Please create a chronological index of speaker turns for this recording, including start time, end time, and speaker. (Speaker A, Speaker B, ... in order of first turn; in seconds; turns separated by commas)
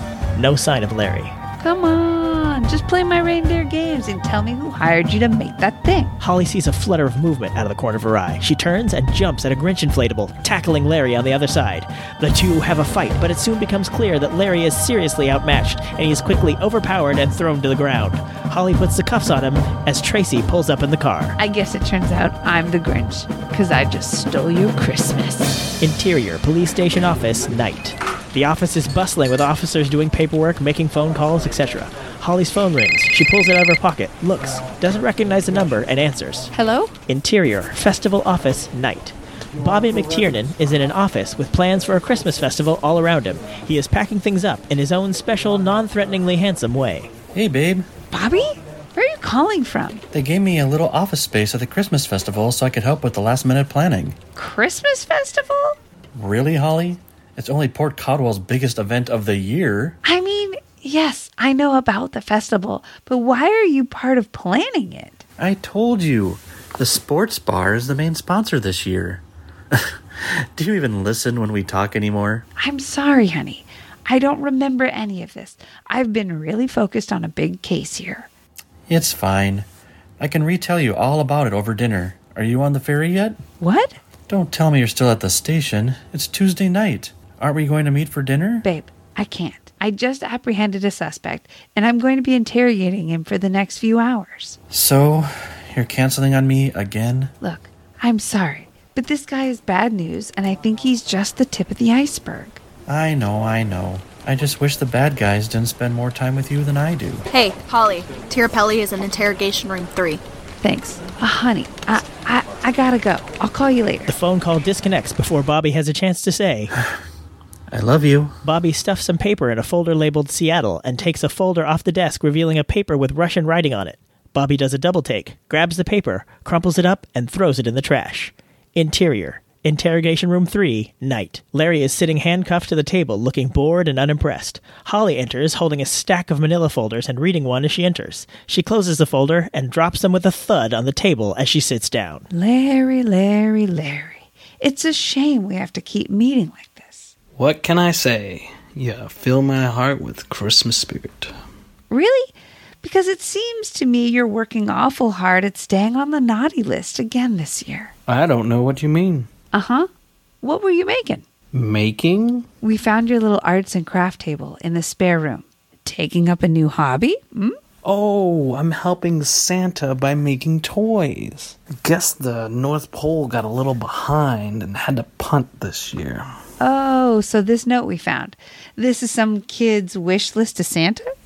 Speaker A: 0.4-1.3, Speaker B: 1.6-6.1, Speaker A: 6.2-21.4, Speaker B: 21.4-25.6, Speaker A: 25.8-36.5, Speaker B: 36.5-36.9, Speaker A: 37.1-47.1, Speaker C: 47.3-47.9, Speaker B: 48.1-50.0, Speaker C: 50.1-54.2, Speaker B: 54.4-55.8, Speaker C: 56.1-60.0, Speaker B: 60.0-65.2, Speaker C: 65.4-69.2, Speaker C: 69.7-72.5, Speaker B: 72.6-78.3, Speaker C: 78.9-79.7, Speaker C: 80.2-83.4, Speaker B: 83.6-84.0, Speaker C: 84.3-88.7, Speaker B: 88.6-94.6, Speaker C: 94.7-97.3, Speaker B: 97.4-102.6, Speaker C: 102.9-107.2, Speaker D: 107.3-110.2, Speaker B: 110.6-114.1, Speaker A: 114.1-116.7, Speaker C: 117.7-118.3, Speaker A: 118.4-142.3, Speaker B: 142.3-147.1, Speaker E: 147.4-151.3, Speaker B: 151.9-157.9, Speaker E: 158.1-159.3, Speaker B: 159.5-159.9, Speaker B: 160.4-161.2, Speaker E: 161.5-162.5, Speaker B: 162.6-167.6, Speaker E: 167.8-176.3, Speaker B: 176.6-181.1